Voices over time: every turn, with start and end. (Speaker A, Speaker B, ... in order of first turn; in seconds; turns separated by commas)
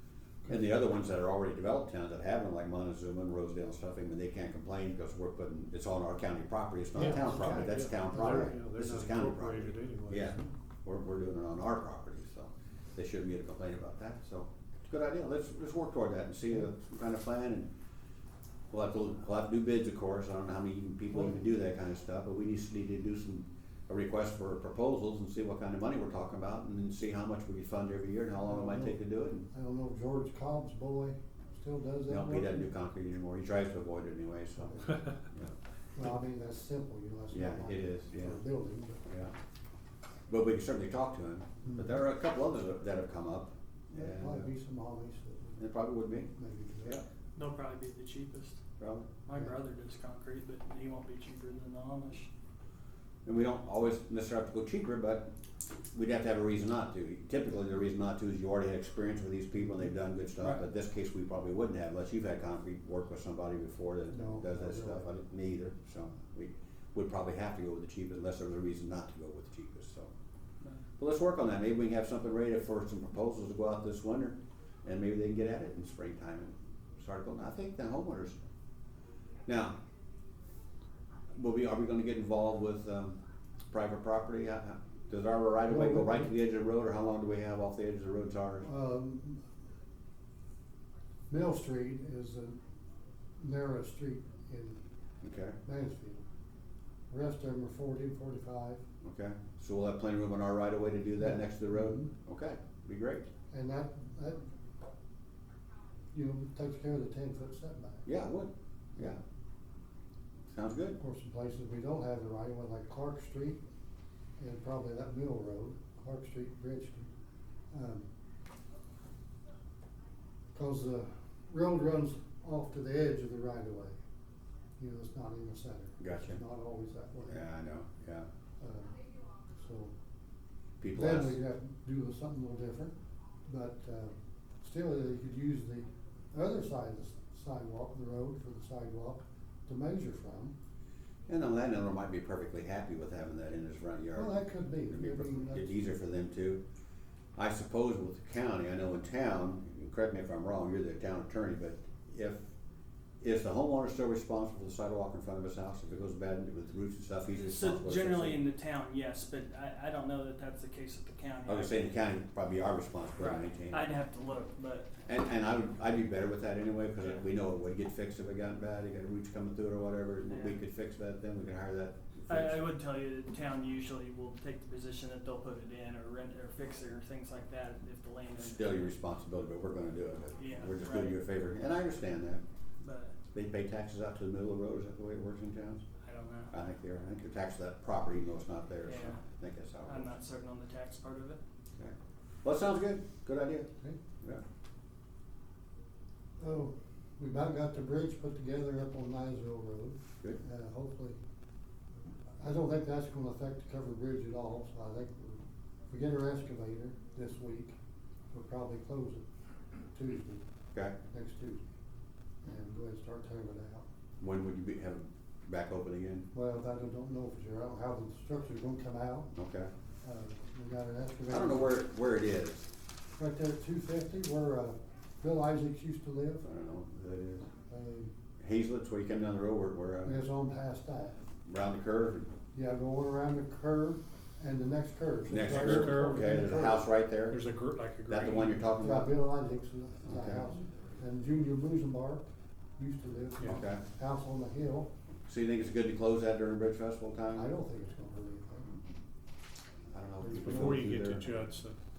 Speaker A: 0.5-17.7, Speaker B: 7.0-8.6, Speaker C: 7.0-10.4, Speaker A: 18.7-29.5, Speaker B: 21.1-21.4, Speaker B: 28.4-29.0, Speaker B: 29.5-32.7, Speaker A: 32.1-35.5, Speaker B: 34.6-35.0, Speaker B: 36.0-39.1, Speaker A: 37.3-38.4, Speaker A: 39.1-39.3, Speaker A: 40.3-44.5, Speaker B: 41.6-41.9, Speaker B: 44.0-45.6, Speaker A: 45.6-46.3, Speaker B: 46.4-47.0, Speaker D: 47.4-48.6, Speaker A: 48.8-49.1, Speaker D: 49.3-52.3, Speaker A: 53.2-55.3, Speaker A: 55.9-70.1, Speaker B: 64.1-65.1, Speaker A: 71.0-78.4, Speaker A: 79.5-79.8, Speaker A: 81.3-83.2, Speaker A: 83.7-88.7, Speaker B: 85.7-86.3, Speaker B: 88.6-89.4, Speaker B: 91.3-92.6, Speaker B: 93.4-94.8, Speaker A: 95.2-95.6, Speaker B: 95.6-96.2, Speaker B: 97.1-98.8, Speaker A: 99.0-103.3, Speaker B: 101.7-102.1, Speaker B: 103.5-104.5, Speaker B: 106.1-108.1, Speaker A: 108.1-109.2, Speaker A: 110.5-111.0, Speaker B: 111.0-113.6, Speaker B: 114.4-117.1, Speaker B: 117.7-118.1, Speaker B: 120.5-124.0, Speaker B: 124.8-127.4, Speaker A: 126.0-126.4, Speaker A: 127.2-128.3, Speaker B: 128.6-129.0, Speaker B: 129.6-129.9, Speaker A: 130.8-131.4, Speaker B: 130.9-132.9, Speaker B: 133.5-140.5, Speaker A: 141.3-146.6, Speaker B: 144.1-145.7, Speaker A: 147.4-152.5, Speaker A: 153.2-158.4, Speaker D: 157.3-161.9, Speaker A: 161.4-163.9, Speaker D: 163.2-164.9, Speaker A: 165.1-172.6, Speaker D: 170.3-170.6, Speaker D: 172.3-179.0, Speaker A: 178.4-182.4, Speaker D: 180.4-181.2, Speaker D: 182.8-183.2, Speaker A: 183.3-185.8, Speaker D: 186.0-186.5, Speaker A: 186.5-190.1, Speaker D: 188.8-189.2, Speaker D: 189.9-191.4, Speaker A: 191.8-193.7, Speaker B: 196.4-201.2, Speaker B: 202.4-207.8, Speaker B: 208.3-209.2, Speaker B: 209.9-210.4, Speaker B: 211.1-211.6, Speaker B: 212.4-213.9, Speaker A: 214.2-216.3, Speaker B: 216.3-219.3, Speaker A: 219.3-219.7, Speaker B: 220.0-221.7, Speaker A: 221.3-222.7, Speaker B: 223.2-226.4, Speaker A: 226.4-227.5, Speaker B: 227.7-228.1, Speaker A: 228.4-230.2, Speaker B: 230.0-231.2, Speaker A: 231.5-232.3, Speaker B: 232.5-236.8, Speaker A: 235.3-237.4, Speaker C: 235.3-236.5, Speaker C: 237.3-238.7, Speaker A: 238.1-239.1, Speaker B: 238.8-242.2, Speaker B: 242.8-244.9, Speaker A: 243.4-243.8, Speaker A: 245.3-247.5, Speaker B: 247.3-248.7, Speaker A: 249.9-251.3, Speaker B: 250.2-250.8, Speaker C: 250.4-251.8